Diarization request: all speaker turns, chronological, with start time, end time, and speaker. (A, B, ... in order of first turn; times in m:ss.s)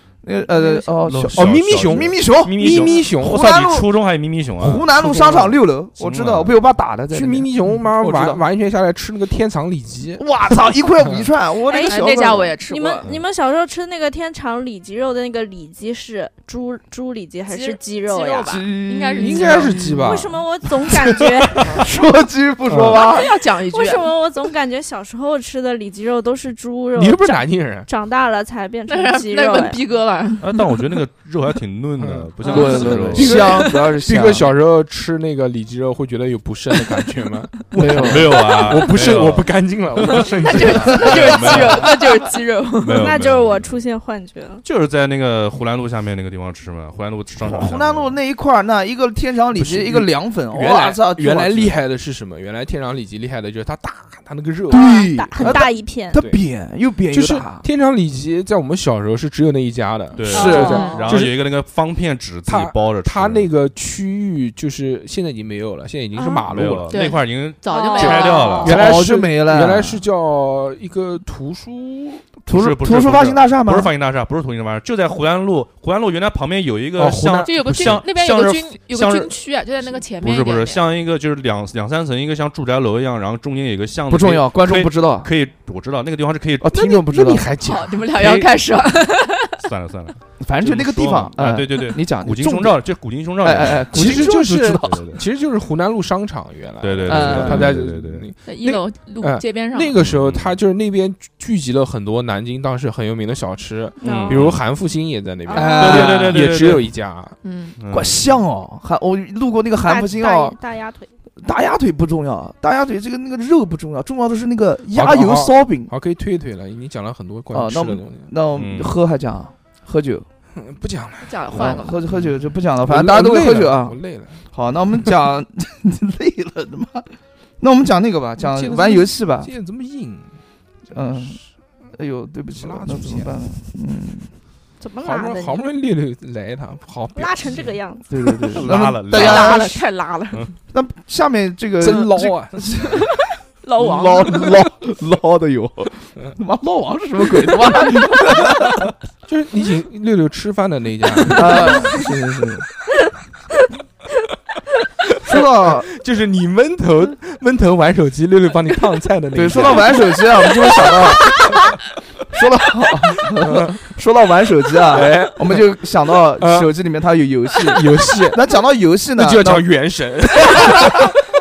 0:00.2-0:03.9 A
0:01.0-0:04.8 B
0:01.3-0:03.4 C
0:04.6-0:08.4 A
0:04.6-0:05.6 C
0:06.0-0:06.5 B
0:07.1-0:10.3 C
0:10.2-0:12.5 A
0:11.7-0:18.7 D
0:11.7-0:13.1 E
0:17.5-0:19.8 E
0:18.4-0:19.9 A
0:19.2-0:20.4 C
0:19.6-0:21.9 D
0:21.0-0:23.3 A
0:21.5-0:21.8 C
0:22.7-0:23.0 C
0:23.1-0:24.1 E
0:23.2-0:29.8 D
0:27.0-0:27.9 C
0:28.9-0:30.8 E
0:30.4-0:33.4 B
0:32.0-0:41.8 C
0:32.4-0:33.8 E
0:32.4-0:34.5 A
0:37.7-0:41.9 B
0:37.7-0:38.4 A
0:40.4-0:43.2 E
0:42.8-0:43.8 B
0:42.9-0:44.6 D
0:44.6-0:48.2 B
0:47.4-0:51.8 A
0:49.5-0:56.4 C
0:54.7-0:56.2 D
0:54.7-0:57.6 A
0:57.1-1:01.4 C
1:00.1-1:03.5 B
1:00.3-1:01.1 D
1:00.3-1:00.9 A
1:00.5-1:01.1 E
1:02.5-1:06.9 C
1:06.2-1:08.8 E
1:06.5-1:08.8 B
1:07.7-1:08.6 D
1:08.0-1:12.3 C
1:08.6-1:10.0 A
1:12.5-1:13.9 A
1:12.5-1:19.3 B
1:17.0-1:18.0 C
1:17.4-1:20.9 E
1:20.2-1:26.8 B
1:24.1-1:25.3 A
1:26.6-1:27.5 A
1:26.7-1:28.1 C
1:27.6-1:29.6 E
1:28.1-1:28.6 B
1:29.6-1:34.3 B
1:30.4-1:32.9 A
1:33.4-1:35.1 A
1:33.9-1:47.4 C
1:34.8-1:35.2 B
1:36.8-1:38.3 B
1:37.0-1:37.8 A
1:38.4-1:39.9 E
1:40.0-1:40.6 B
1:44.0-1:44.5 D
1:44.0-1:44.6 B
1:45.5-1:46.4 A
1:45.6-1:46.0 E
1:45.7-1:46.9 B
1:47.4-1:47.8 E
1:47.8-1:48.3 B
1:47.9-1:50.5 A
1:49.8-1:51.1 D
1:51.4-1:55.9 A
1:54.9-1:58.3 C
1:57.5-2:00.2 A
1:58.6-1:58.9 B
2:00.5-2:04.4 C
2:01.2-2:02.0 E
2:01.5-2:07.1 A
2:07.6-2:09.5 A
2:08.4-2:09.1 E
2:09.4-2:10.3 C
2:10.9-2:11.4 A
2:11.0-2:11.4 C
2:11.9-2:14.3 A
2:12.6-2:13.4 C
2:14.8-2:15.7 D
2:15.0-2:17.7 C
2:17.1-2:18.3 D
2:18.1-2:19.8 A
2:18.5-2:19.7 B
2:19.1-2:20.5 E
2:20.7-2:23.1 A
2:21.8-2:22.7 C
2:23.6-2:24.6 E
2:23.8-2:28.9 A
2:29.2-2:31.8 C
2:31.3-2:32.7 A
2:35.2-2:35.9 A
2:35.2-2:41.6 C
2:39.3-2:41.6 A
2:42.3-2:49.7 A
2:43.4-2:43.8 C
2:44.9-2:45.8 C
2:46.4-2:46.7 C
2:47.6-2:48.4 C
2:49.2-2:51.1 C
2:50.4-2:51.0 A